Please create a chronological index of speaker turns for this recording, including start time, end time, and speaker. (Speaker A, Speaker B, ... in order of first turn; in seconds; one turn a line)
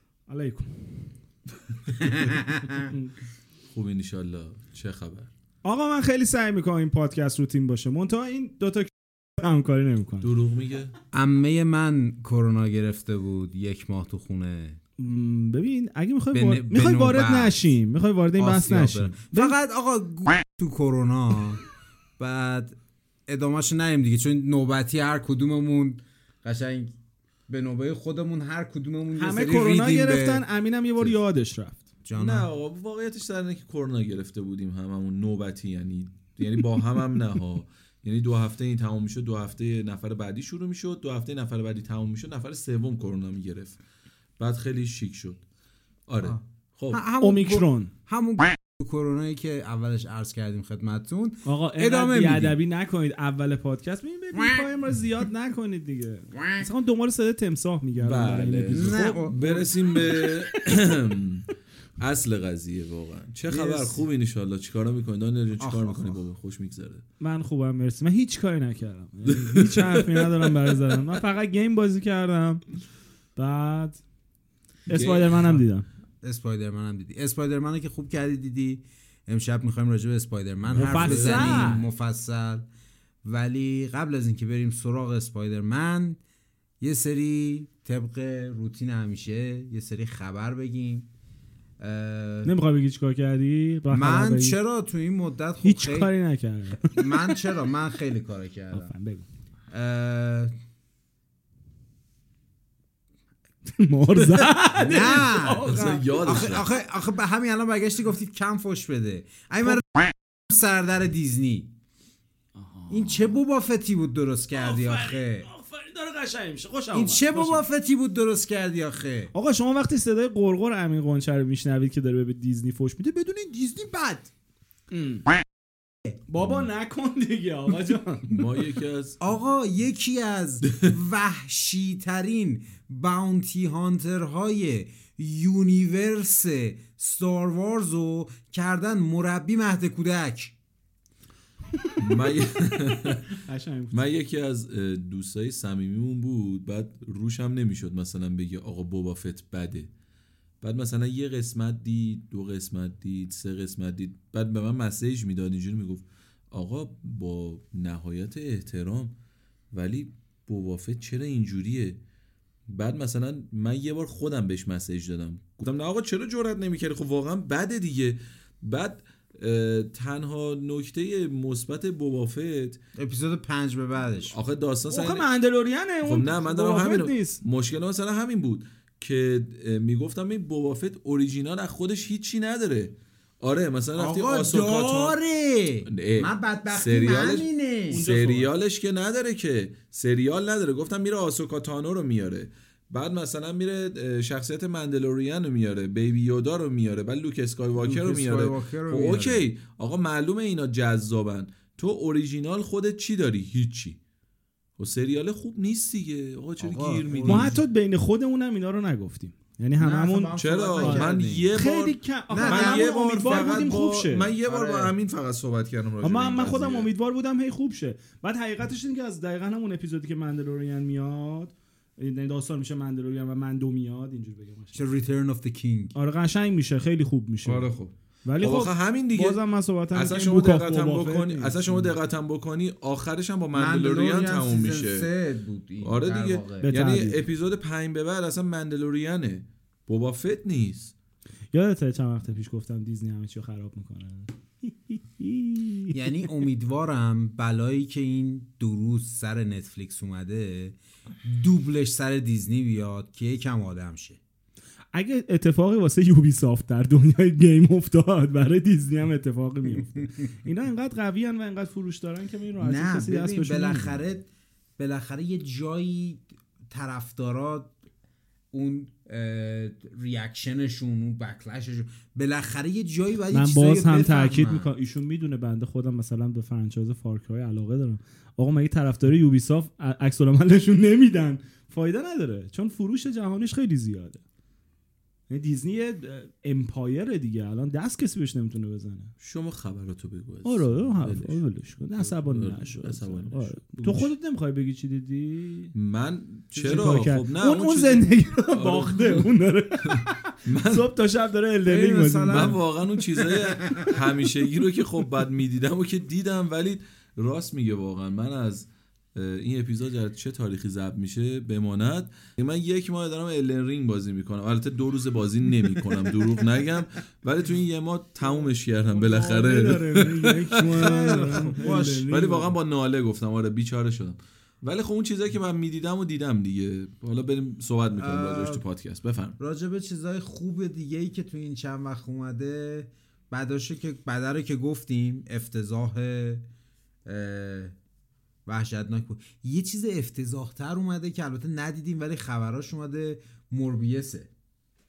Speaker A: 0.3-1.0
Speaker B: 1.9-2.9
Speaker A: 2.0-3.1
Speaker C: 3.7-5.3
Speaker A: 5.6-10.3
Speaker C: 10.2-10.9
Speaker B: 11.1-14.8
Speaker A: 15.0-19.5
Speaker B: 16.3-17.7
Speaker B: 18.4-21.6
Speaker B: 22.2-26.9
Speaker B: 27.5-30.4
Speaker A: 29.1-31.9
Speaker B: 32.0-32.5
Speaker C: 32.2-43.8
Speaker C: 44.4-45.4
Speaker C: 46.1-47.0
Speaker B: 46.2-52.5
Speaker A: 47.2-47.9
Speaker A: 51.5-61.0
Speaker B: 54.3-54.6
Speaker B: 56.3-56.6
Speaker C: 58.0-61.5
Speaker B: 58.7-60.0
Speaker C: 62.0-67.0
Speaker B: 63.5-64.0
Speaker B: 65.6-66.2
Speaker A: 67.2-72.6
Speaker C: 69.3-70.8
Speaker A: 73.3-74.0
Speaker A: 74.9-75.8
Speaker C: 74.9-75.6
Speaker B: 76.2-82.6
Speaker C: 80.7-81.8
Speaker A: 80.8-81.8
Speaker B: 83.2-86.2
Speaker B: 86.8-91.1
Speaker B: 91.8-92.5
Speaker A: 92.4-94.6
Speaker B: 93.9-96.1
Speaker A: 95.6-97.5
Speaker B: 96.8-98.9
Speaker A: 98.7-99.2
Speaker B: 99.7-100.5
Speaker A: 103.7-106.1
Speaker B: 104.7-109.8
Speaker C: 105.6-106.7
Speaker B: 110.5-111.7
Speaker A: 112.5-113.4
Speaker B: 112.9-115.5
Speaker A: 114.5-117.6
Speaker B: 116.9-119.3
Speaker A: 119.3-124.3
Speaker A: 124.9-125.3
Speaker A: 126.3-128.5
Speaker C: 128.3-129.2
Speaker B: 129.2-140.5
Speaker C: 142.0-143.3
Speaker A: 143.3-144.1
Speaker C: 143.9-149.9
Speaker C: 150.6-159.1
Speaker C: 159.7-162.0
Speaker C: 162.7-172.8
Speaker B: 172.9-174.3
Speaker C: 174.3-175.2
Speaker A: 174.9-177.4
Speaker C: 176.0-185.2
Speaker B: 184.0-188.0
Speaker C: 185.8-204.0
Speaker A: 187.9-188.5
Speaker B: 197.8-199.5
Speaker C: 204.8-207.6
Speaker B: 206.6-207.6
Speaker A: 207.2-214.3
Speaker B: 209.8-211.5
Speaker C: 210.3-216.9
Speaker B: 212.3-213.6
Speaker B: 214.4-214.9
Speaker A: 216.0-224.8
Speaker B: 224.7-225.9
Speaker A: 225.9-227.7
Speaker C: 227.4-229.4
Speaker A: 228.2-231.9
Speaker C: 229.9-235.1
Speaker B: 233.5-236.7
Speaker C: 235.8-240.9
Speaker A: 236.6-237.2
Speaker A: 241.5-246.1
Speaker B: 245.9-254.2
Speaker A: 254.9-264.0
Speaker B: 262.6-264.3
Speaker B: 264.8-267.7
Speaker B: 268.5-274.7
Speaker A: 273.3-284.2
Speaker A: 285.3-289.1
Speaker C: 289.2-291.4
Speaker A: 290.4-295.7
Speaker C: 292.0-294.1
Speaker C: 295.7-299.3
Speaker B: 296.5-297.1
Speaker A: 296.6-302.6
Speaker C: 299.8-300.9
Speaker B: 301.6-303.9
Speaker C: 302.3-329.4
Speaker A: 318.9-322.5
Speaker B: 320.6-322.1
Speaker B: 327.9-328.6
Speaker B: 329.4-336.4
Speaker B: 337.1-337.7
Speaker B: 338.4-344.3